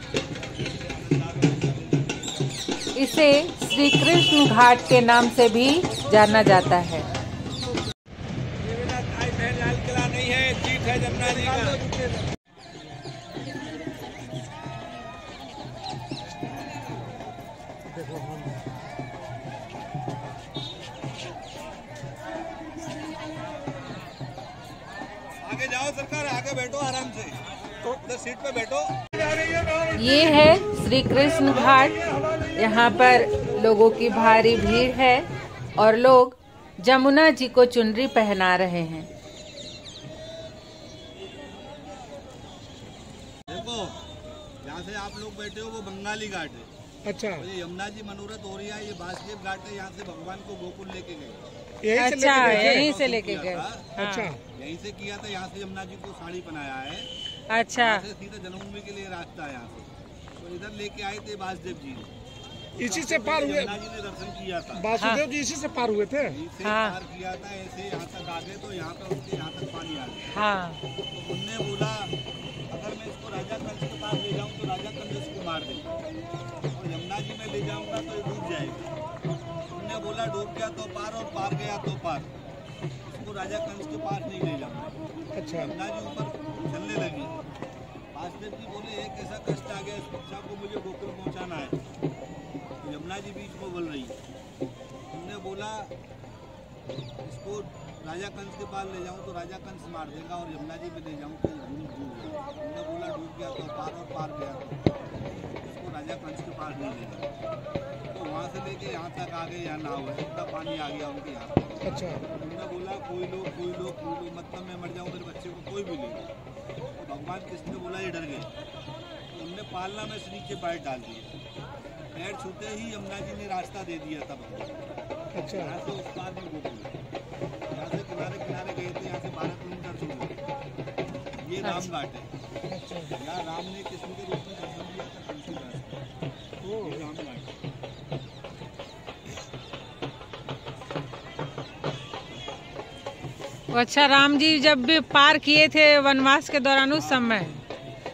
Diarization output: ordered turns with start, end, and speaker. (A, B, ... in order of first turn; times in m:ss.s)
0:00.6-0:02.1 A
0:02.9-0:07.0 B
0:04.2-0:04.7 A
0:08.6-0:12.0 A
0:18.0-0:18.4 C
0:25.4-0:28.9 A
0:29.9-0:39.1 B
0:43.5-0:44.0 A
0:44.6-0:46.7 A
0:47.0-0:47.4 C
0:47.4-0:51.5 A
0:51.8-0:52.9 C
0:51.9-0:54.3 B
0:52.3-0:53.9 A
0:54.0-0:54.4 C
0:54.5-0:57.1 A
0:57.5-0:58.0 B
0:57.8-1:02.1 A
1:02.8-1:04.9 A
1:02.8-1:03.7 C
1:04.7-1:06.4 C
1:05.0-1:05.2 B
1:06.2-1:10.4 A
1:06.6-1:06.9 B
1:10.3-1:10.8 B
1:11.1-1:12.1 A
1:12.7-1:15.9 A
1:16.7-1:18.9 A
1:19.7-1:22.3 A
1:23.1-1:25.0 A
1:25.3-1:25.7 C
1:25.5-1:27.4 A
1:28.1-1:31.8 A
1:32.8-1:34.2 A
1:35.1-1:35.9 A
1:37.2-1:44.8 A
1:45.6-1:47.3 A
1:48.1-1:56.3 A
1:51.8-1:52.2 C
1:56.9-1:58.5 A
1:59.3-2:01.3 A
2:02.1-2:04.8 A
2:05.3-2:05.8 C
2:05.5-2:07.0 A
2:07.7-2:10.4 A
2:11.4-2:12.3 A
2:11.6-2:11.9 B
2:12.7-2:13.1 C
2:13.2-2:16.0 A
2:16.6-2:17.0 C
2:16.7-2:17.5 A
2:23.7-2:27.6 B
2:27.0-2:27.5 A